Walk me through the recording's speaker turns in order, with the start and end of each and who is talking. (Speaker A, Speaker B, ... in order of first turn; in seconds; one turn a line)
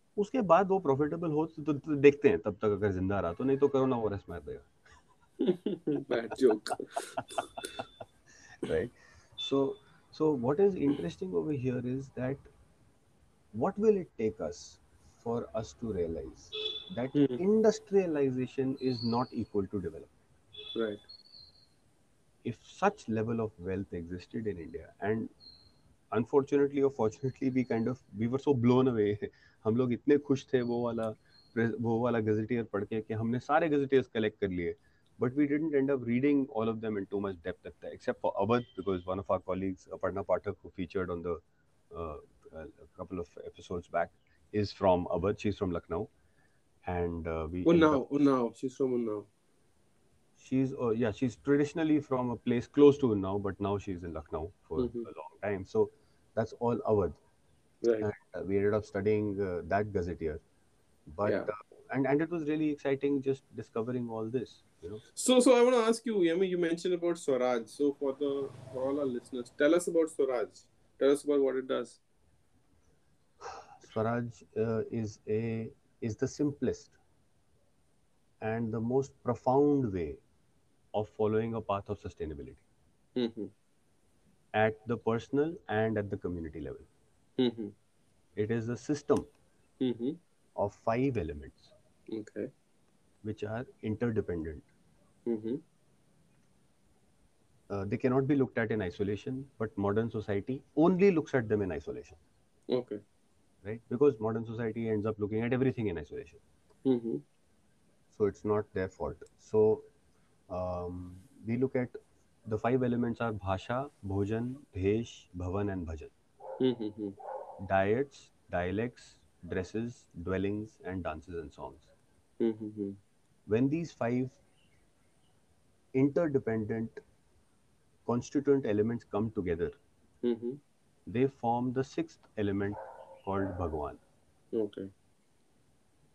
Speaker A: 0.2-4.7
Speaker B: 5.4-7.5
Speaker A: 8.6-12.4
Speaker A: 13.5-20.1
Speaker B: 17.1-17.4
Speaker B: 20.8-21.0
Speaker A: 22.4-25.3
Speaker A: 26.1-46.1
Speaker A: 46.9-48.0
Speaker B: 47.6-49.3
Speaker A: 50.4-57.2
Speaker B: 54.8-55.1
Speaker B: 57.8-58.1
Speaker A: 58.0-60.4
Speaker A: 61.1-65.0
Speaker B: 61.2-61.5
Speaker B: 65.2-72.0
Speaker A: 73.8-77.0
Speaker A: 78.4-80.2
Speaker A: 80.9-82.7
Speaker B: 83.2-83.5
Speaker A: 84.5-86.9
Speaker B: 87.4-87.7
Speaker A: 88.4-89.3
Speaker B: 89.8-90.2
Speaker A: 90.6-91.7
Speaker B: 92.1-92.5
Speaker A: 93.2-94.7
Speaker B: 95.3-95.6
Speaker A: 97.7-102.2
Speaker B: 102.7-103.0
Speaker A: 103.6-106.4
Speaker B: 106.9-107.2
Speaker A: 108.1-109.9
Speaker A: 110.5-116.1
Speaker B: 116.6-117.2
Speaker A: 117.6-121.9
Speaker B: 122.4-123.0
Speaker A: 123.5-124.4
Speaker A: 126.0-127.0
Speaker A: 128.1-129.8
Speaker B: 130.2-130.6
Speaker A: 131.1-134.0
Speaker B: 134.5-134.9